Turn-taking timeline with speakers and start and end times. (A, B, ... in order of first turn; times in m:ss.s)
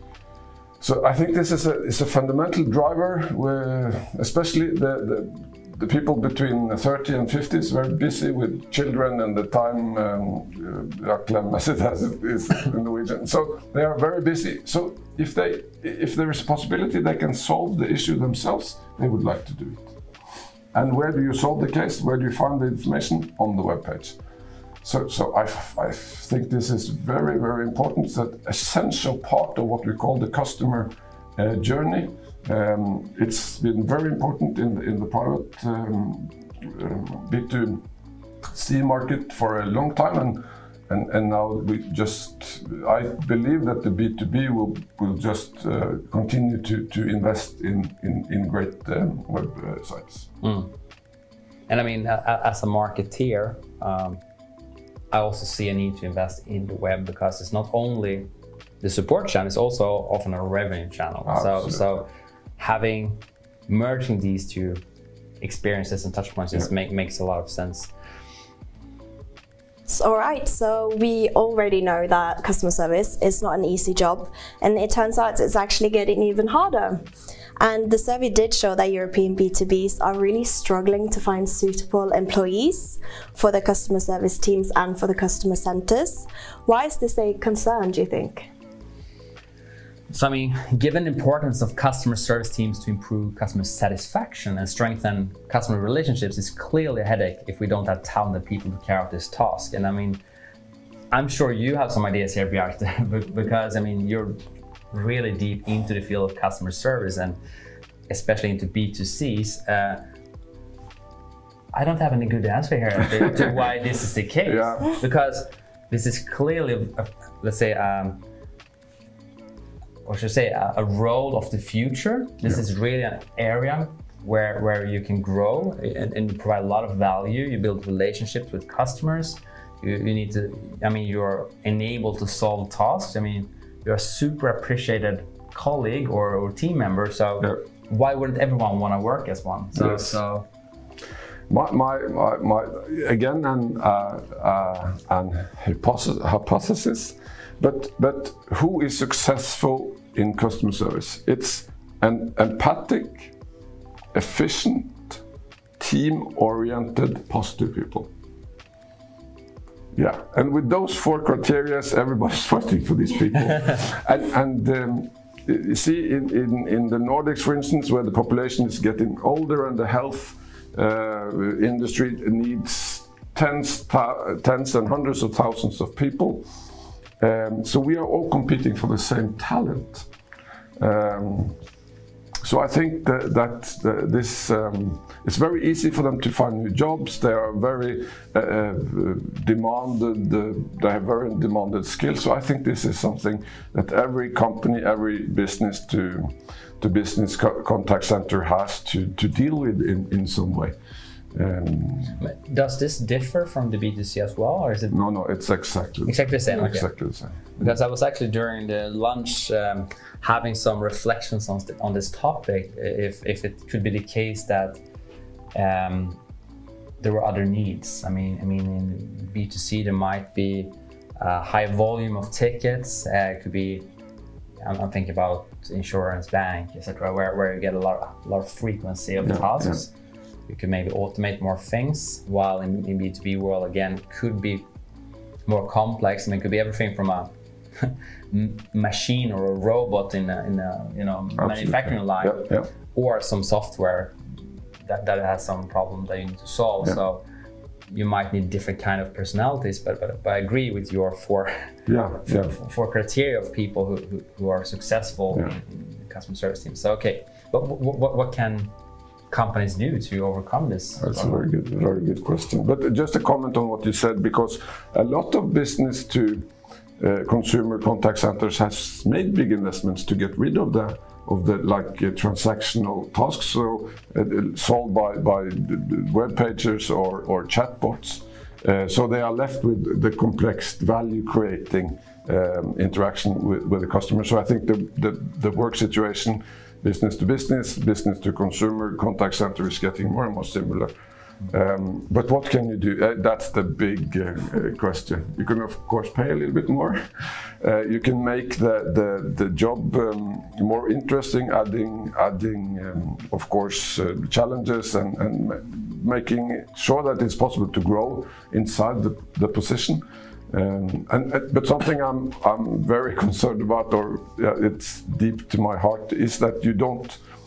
0:00.8-0:20.0 A
0:20.7-0:24.2 A
0:24.8-0:37.8 A
0:38.5-0:50.3 A
0:50.4-0:50.7 B
0:51.7-0:54.2 B
0:55.1-1:04.8 B
1:01.2-1:01.8 A
1:05.4-1:07.9 B
1:09.9-1:17.1 C
1:17.6-1:28.5 C
1:30.1-1:40.2 B
1:41.1-1:44.4 B
1:44.9-1:47.4 B
1:48.1-1:50.0 B
1:51.7-1:58.2 B
1:54.5-1:54.9 A
2:00.0-2:20.5 B
2:19.8-2:20.2 A
2:21.5-2:33.3 A
2:34.1-2:35.2 A
2:35.8-2:38.1 A
2:39.9-2:56.5 A
2:57.2-3:00.1 A
3:00.8-3:01.6 A
3:02.4-3:20.7 A
3:21.3-3:22.2 A
3:22.2-3:25.0 B
3:24.9-3:27.7 A
3:26.0-3:26.9 B
3:27.6-3:34.8 B
3:35.5-3:36.2 B
3:37.0-3:43.9 B
3:44.6-3:49.9 B
3:49.2-3:49.8 A
3:50.5-3:54.7 B
3:55.5-4:04.2 B
4:01.4-4:02.7 A
4:04.8-4:07.2 B
4:07.9-4:11.7 B
4:11.9-4:12.6 A
4:12.5-4:18.7 B
4:19.3-4:21.4 B
4:21.0-4:50.9 A
4:51.5-5:17.2 A